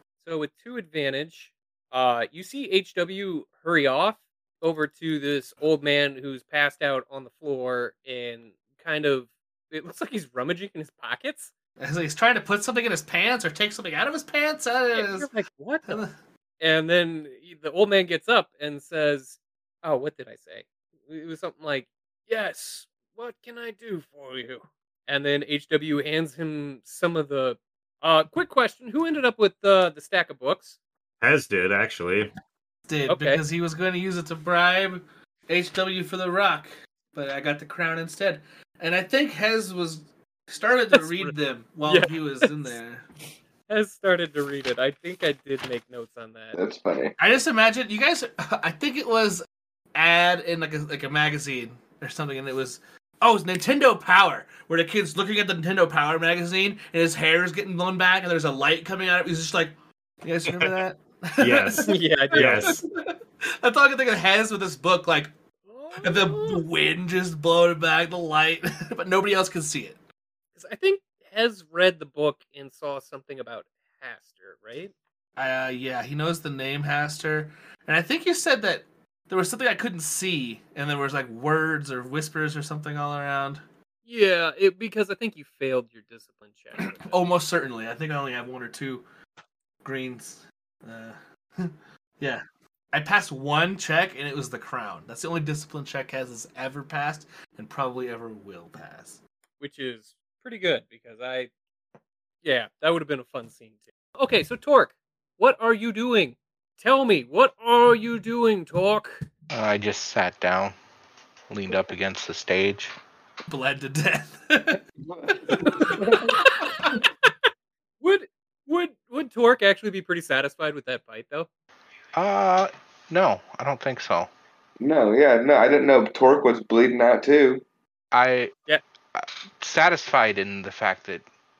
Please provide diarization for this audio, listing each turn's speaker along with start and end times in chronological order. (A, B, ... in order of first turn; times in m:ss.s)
0:00.2-0:11.5 A
0:11.8-0:15.3 B
0:14.9-0:16.0 A
0:15.9-0:16.1 B
0:16.6-0:30.8 A
0:31.2-0:32.3 C
0:32.9-0:43.1 B
0:33.1-0:33.4 A
0:40.9-0:41.3 A
0:41.9-0:42.8 A
0:43.7-0:46.6 A
0:46.6-0:47.2 D
0:47.2-1:05.3 B
1:01.4-1:02.8 C
1:01.8-1:02.8 A
1:05.7-1:06.6 A
1:06.0-1:10.0 B
1:10.6-1:14.9 A
1:15.4-1:23.6 B
1:24.0-1:27.1 A
1:26.8-1:29.0 B
1:29.8-1:39.2 B
1:39.6-1:41.5 A
1:42.4-1:49.2 A
1:49.5-1:50.8 E
1:51.5-1:52.9 E
1:53.5-1:54.8 B
1:55.1-1:56.4 D
1:55.4-1:57.0 B
1:55.6-1:56.9 A
1:58.0-2:01.5 A
2:02.2-2:04.3 E
2:04.8-2:07.6 D
2:08.1-2:08.5 E
2:09.2-2:11.2 E